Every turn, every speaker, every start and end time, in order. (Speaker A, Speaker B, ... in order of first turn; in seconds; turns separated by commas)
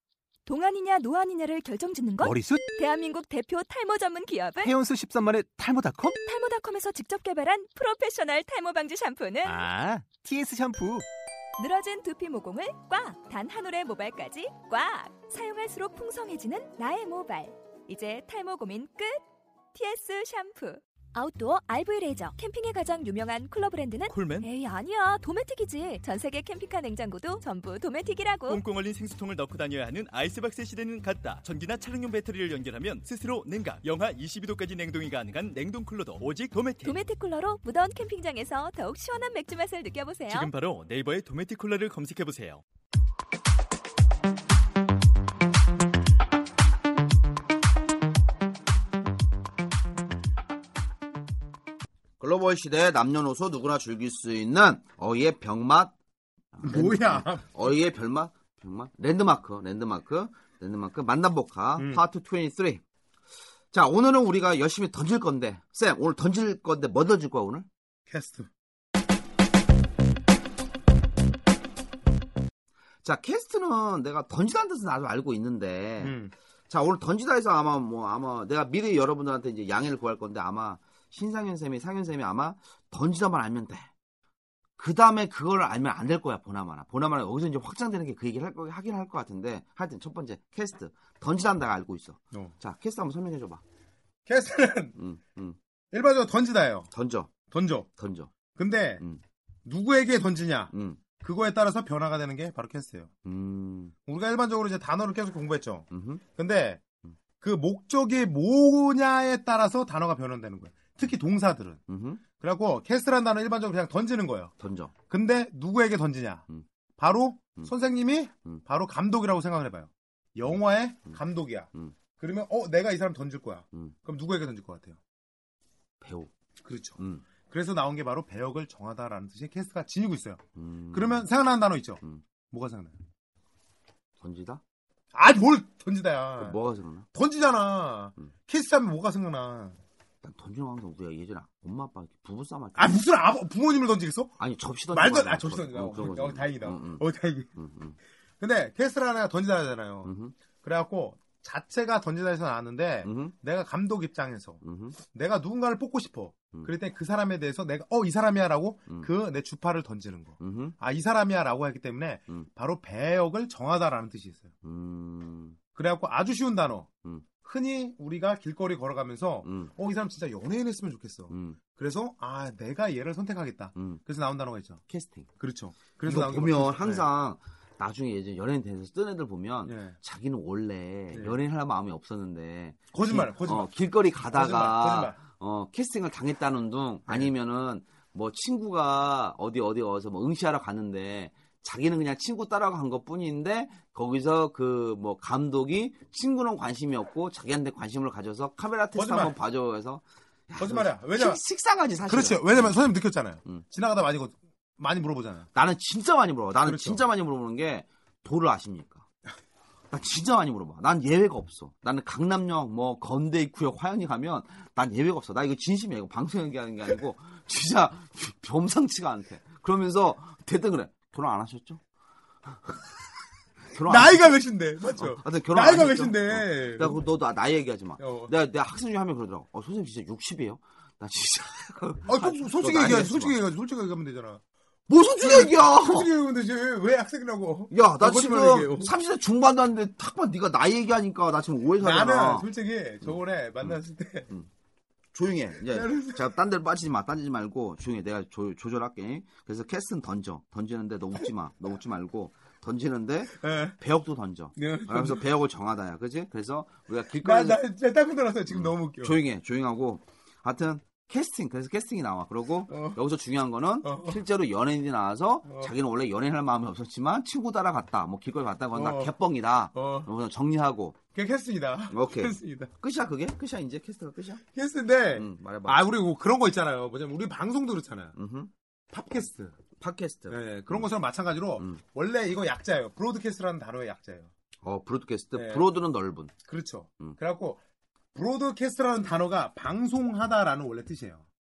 Speaker A: 0.5-4.7, Speaker B: 2.2-2.6, Speaker B: 4.6-6.2, Speaker A: 6.0-9.6, Speaker B: 9.5-11.0, Speaker A: 11.6-19.2, Speaker A: 19.7-28.6, Speaker C: 24.1-24.5, Speaker C: 28.5-37.0, Speaker A: 36.8-40.5, Speaker C: 40.3-42.6, Speaker D: 52.2-55.9, Speaker D: 56.5-62.8, Speaker E: 56.6-57.7, Speaker E: 61.8-62.0, Speaker D: 63.7-67.7, Speaker E: 68.1-68.5, Speaker D: 73.0-76.2, Speaker E: 76.0-76.3, Speaker D: 76.7-83.9, Speaker D: 84.8-93.6, Speaker E: 94.3-95.0, Speaker D: 95.0-95.6, Speaker E: 95.9-96.9, Speaker D: 96.9-97.3, Speaker E: 97.5-97.9, Speaker D: 98.0-98.3, Speaker E: 98.5-99.0, Speaker E: 99.6-103.1, Speaker D: 100.7-101.0, Speaker D: 103.2-103.9, Speaker E: 104.0-106.8, Speaker D: 105.9-106.2, Speaker E: 107.4-111.8, Speaker D: 111.9-112.2, Speaker E: 112.4-114.5, Speaker D: 114.6-114.9, Speaker E: 115.1-125.0, Speaker D: 126.0-126.3, Speaker E: 126.6-130.4, Speaker D: 127.0-127.2, Speaker D: 130.6-131.3, Speaker E: 130.9-132.9, Speaker D: 134.2-134.6, Speaker E: 135.1-136.6, Speaker D: 136.4-137.1, Speaker E: 137.1-139.8, Speaker D: 140.2-143.0, Speaker E: 142.7-144.4, Speaker D: 144.4-147.0, Speaker E: 144.9-147.6, Speaker D: 147.6-148.0, Speaker E: 148.4-154.6, Speaker D: 150.0-150.3, Speaker D: 153.0-153.3, Speaker D: 154.6-155.0, Speaker E: 155.1-164.5, Speaker D: 160.4-160.8, Speaker D: 164.6-165.6, Speaker E: 165.7-166.9, Speaker E: 167.4-174.8, Speaker D: 169.4-169.7, Speaker D: 171.3-171.6, Speaker D: 173.7-174.0, Speaker D: 174.9-175.3, Speaker E: 175.4-177.1, Speaker D: 176.0-202.8, Speaker E: 179.7-180.0, Speaker E: 181.1-181.4, Speaker E: 182.9-183.7, Speaker E: 184.2-185.2, Speaker E: 198.9-199.3, Speaker E: 200.6-201.4, Speaker E: 202.1-205.5, Speaker D: 205.5-209.1, Speaker E: 206.6-207.0, Speaker D: 209.9-221.8, Speaker D: 222.5-222.8, Speaker D: 223.6-224.4, Speaker E: 223.8-227.0, Speaker D: 224.9-233.4, Speaker E: 228.0-228.3, Speaker E: 232.1-234.4, Speaker D: 234.9-236.1, Speaker E: 235.0-238.9, Speaker D: 237.7-242.5, Speaker E: 241.8-244.3, Speaker D: 243.0-243.8, Speaker D: 245.1-257.6, Speaker E: 245.7-246.4, Speaker E: 253.3-253.8, Speaker E: 254.5-255.3, Speaker E: 257.1-259.2, Speaker D: 258.5-271.0, Speaker E: 262.7-263.0, Speaker E: 263.8-264.2, Speaker E: 265.4-265.7, Speaker E: 268.7-269.1, Speaker E: 269.7-270.1, Speaker E: 271.1-272.7, Speaker D: 271.9-274.4, Speaker E: 274.5-278.1, Speaker D: 275.1-275.9, Speaker D: 278.1-278.5, Speaker E: 278.9-279.6, Speaker D: 279.8-280.9, Speaker E: 280.3-284.3, Speaker D: 284.6-286.3, Speaker E: 285.3-285.7, Speaker E: 286.5-287.6, Speaker E: 288.1-291.2